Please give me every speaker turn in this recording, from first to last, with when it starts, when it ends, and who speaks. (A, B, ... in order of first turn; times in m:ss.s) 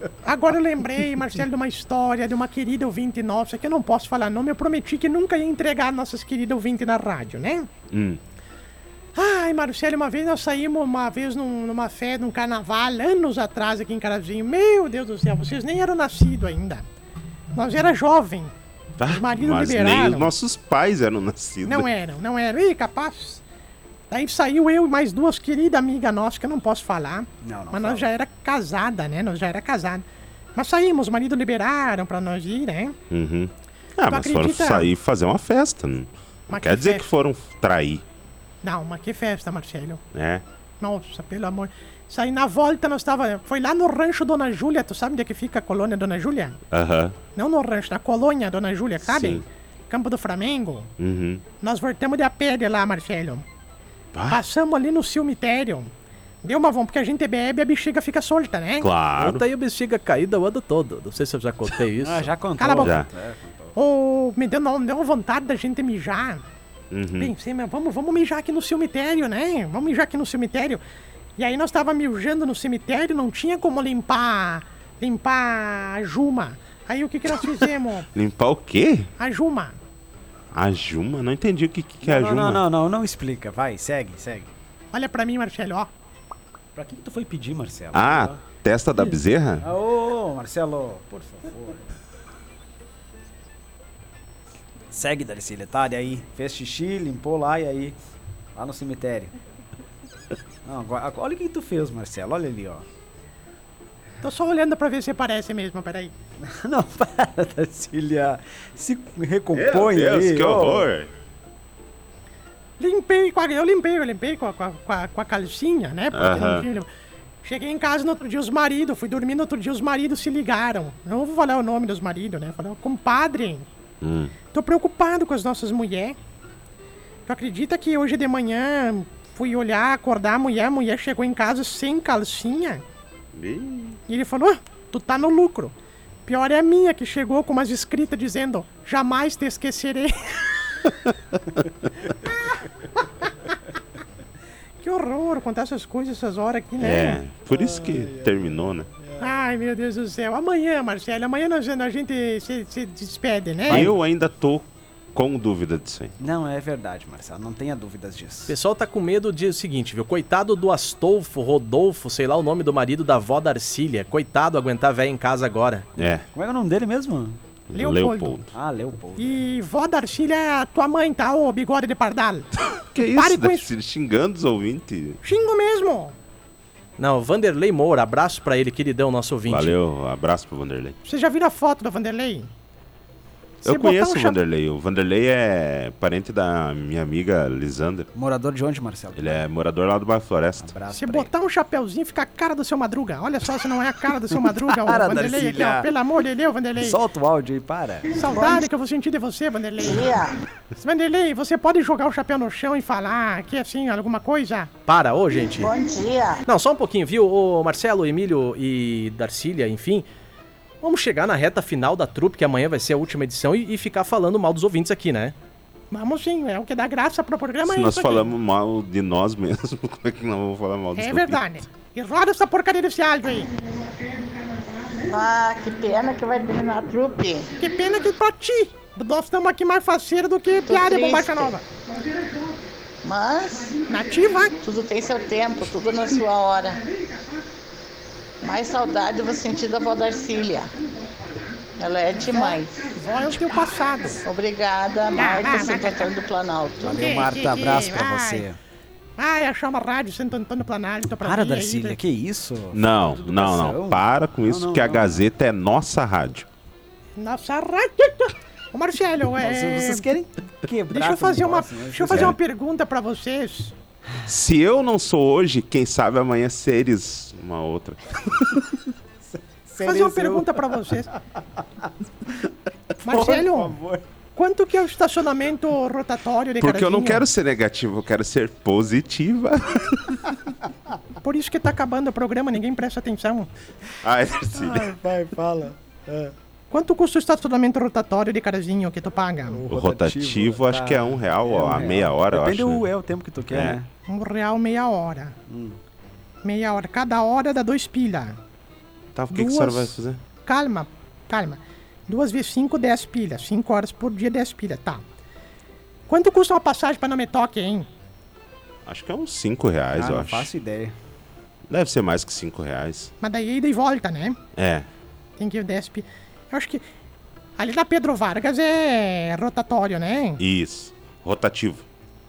0:00.2-0:07.7 A
0:07.9-0:08.2 B
0:09.1-0:16.8 A
0:17.5-0:18.5 A
0:19.0-0:21.9 B
0:19.1-0:20.3 A
0:21.6-0:23.4 A
0:24.1-0:33.0 A
0:27.4-0:28.1 C
0:33.1-0:38.0 B
0:34.1-0:34.9 A
0:36.5-0:37.1 A
0:38.6-0:40.0 A
0:40.1-0:40.4 B
0:40.8-0:46.6 A
0:46.7-0:47.2 B
0:47.3-0:50.9 A
0:49.0-0:49.4 B
0:51.0-0:51.4 B
0:51.6-0:53.4 A
0:54.1-0:54.4 B
0:54.3-0:55.9 A
0:56.4-0:58.9 A
0:58.8-0:59.4 B
0:59.2-1:02.3 D
1:02.0-1:03.8 C
1:02.6-1:03.0 A
1:03.8-1:06.4 A
1:06.9-1:07.3 B
1:07.2-1:10.8 A
1:11.4-1:18.1 A
1:18.1-1:19.1 B
1:19.2-1:19.8 A
1:20.5-1:22.6 B
1:22.0-1:24.5 C
1:24.9-1:25.9 A
1:26.7-1:28.4 C
1:27.9-1:29.6 B
1:29.6-1:31.9 C
1:34.9-1:38.0 C
1:38.5-1:39.3 C
1:40.6-1:42.8 C
1:44.2-1:46.1 A
1:46.4-1:50.9 C
1:49.5-1:51.1 B
1:52.8-1:56.9 A
1:56.1-1:56.6 B
1:57.4-2:03.7 A
2:04.0-2:04.3 B
2:04.5-2:06.2 A
2:07.2-2:12.8 A
2:13.3-2:14.0 B
2:14.1-2:15.7 A
2:16.2-2:20.9 A
2:24.8-2:27.2 A
2:26.8-2:28.9 B
2:27.5-2:29.3 C
2:29.2-2:33.9 A
2:33.7-2:34.0 C
2:33.7-2:36.1 B
2:36.2-2:38.5 C
2:38.5-2:45.9 D
2:46.0-2:46.2 B
2:46.3-2:47.4 C
2:47.7-2:48.5 B
2:47.7-2:48.4 A
2:48.5-2:49.4 C
2:49.2-2:53.7 A
2:52.8-2:55.2 B
2:55.2-2:56.1 A
2:57.0-2:59.8 D
2:59.5-3:01.0 B
3:01.0-3:02.5 A
3:03.6-3:08.1 B
3:03.6-3:04.4 A
3:08.1-3:09.4 C
3:09.2-3:10.7 B
3:10.6-3:11.3 C
3:10.9-3:17.0 A
3:14.3-3:15.9 C
3:16.8-3:18.1 C
3:18.1-3:20.2 A
3:18.2-3:18.6 E
3:19.8-3:20.4 E
3:20.8-3:24.7 A
3:24.9-3:25.7 D
3:25.6-3:26.4 E
3:26.4-3:30.0 D
3:30.8-3:35.3 D
3:35.9-3:38.3 A
3:37.6-3:41.4 B
3:41.0-3:43.5 A
3:45.0-3:47.5 E
3:47.6-3:51.6 A
3:50.6-3:51.5 E
3:53.0-3:53.8 E
3:53.9-3:54.6 A
3:54.6-3:56.8 E
3:58.4-4:00.7 E
4:01.8-4:02.9 E
4:02.3-4:04.2 A
4:04.2-4:07.0 E
4:05.1-4:06.1 A
4:06.8-4:08.6 C
4:06.8-4:08.4 A
4:09.2-4:12.0 A
4:11.1-4:15.3 C
4:12.7-4:16.5 B
4:17.2-4:20.1 A
4:19.4-4:22.4 C
4:20.9-4:23.7 A
4:24.2-4:28.7 B
4:29.2-4:32.5 C
4:29.8-4:31.1 A
4:33.0-4:33.8 A
4:33.0-4:34.0 C
4:34.4-4:37.2 A
4:36.6-4:40.4 B
4:41.2-4:43.5 A
4:44.0-4:44.9 B
4:44.5-4:46.3 C
4:46.7-4:49.6 A
4:49.5-4:53.9 C
4:49.7-4:52.8 B
4:53.5-4:53.8 B
4:54.1-4:55.4 A
4:55.5-4:55.8 C
4:56.4-4:58.4 A
4:59.1-5:00.2 B
4:59.3-5:05.0 A
5:06.1-5:07.9 A
5:08.8-5:10.5 B
5:09.9-5:10.9 C
5:11.7-5:13.1 B
5:13.2-5:14.4 A
5:14.6-5:14.8 B
5:15.4-5:16.8 A
5:17.6-5:20.4 A
5:20.4-5:21.8 B